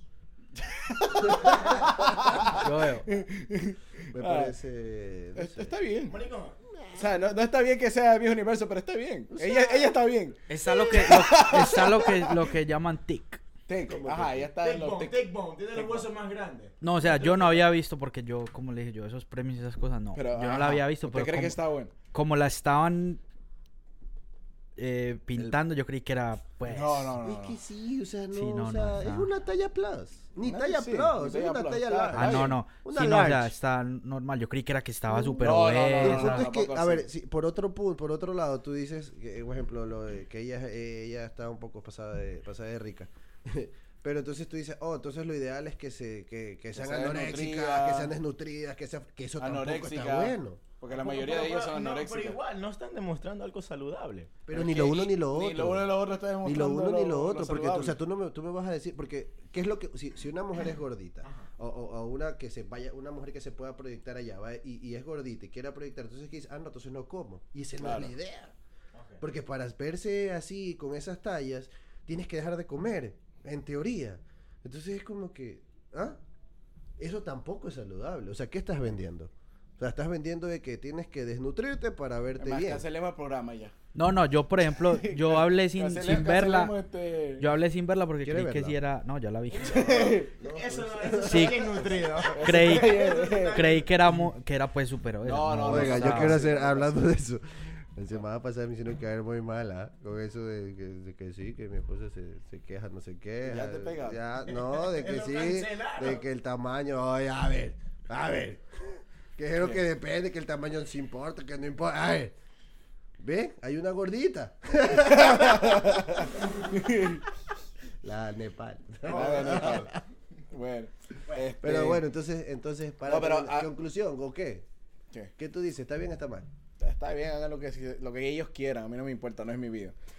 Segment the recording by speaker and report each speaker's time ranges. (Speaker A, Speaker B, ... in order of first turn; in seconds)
Speaker A: 0.6-4.5, 5.3-6.1, 6.9-12.5, 13.7-15.2, 15.7-16.1, 17.1-17.4, 20.1-21.9, 26.7-27.6, 30.4-32.6, 35.4-37.1, 46.7-48.1, 49.4-52.4, 54.5-58.0, 67.8-68.1, 82.4-83.7, 84.8-87.5, 89.6-90.3, 92.3-93.7, 95.2-97.0, 103.4-104.2, 115.0-117.2, 119.0-119.9, 120.5-122.0, 123.1-123.7, 126.8-129.9
Speaker B: 2.5-3.1, 10.5-13.4, 16.8-21.6, 22.1-23.2, 24.8-27.1, 28.3-29.3, 32.1-36.5, 83.9-86.8, 87.4-90.0, 91.2-96.4
Speaker C: 4.1-5.8, 6.7-7.1, 9.3-9.9, 13.9-14.5, 27.2-33.5, 35.1-50.6, 54.5-68.5, 69.2-76.2, 77.0-82.8, 88.2-88.8, 90.0-92.2, 95.6-112.3, 113.2-116.4, 118.0-120.0, 121.6-124.7, 125.4-126.5
Speaker D: 6.1-6.6, 14.2-16.8, 50.9-54.3, 61.2-61.5, 68.9-69.2, 89.5-93.8, 104.5-106.2, 119.1-119.8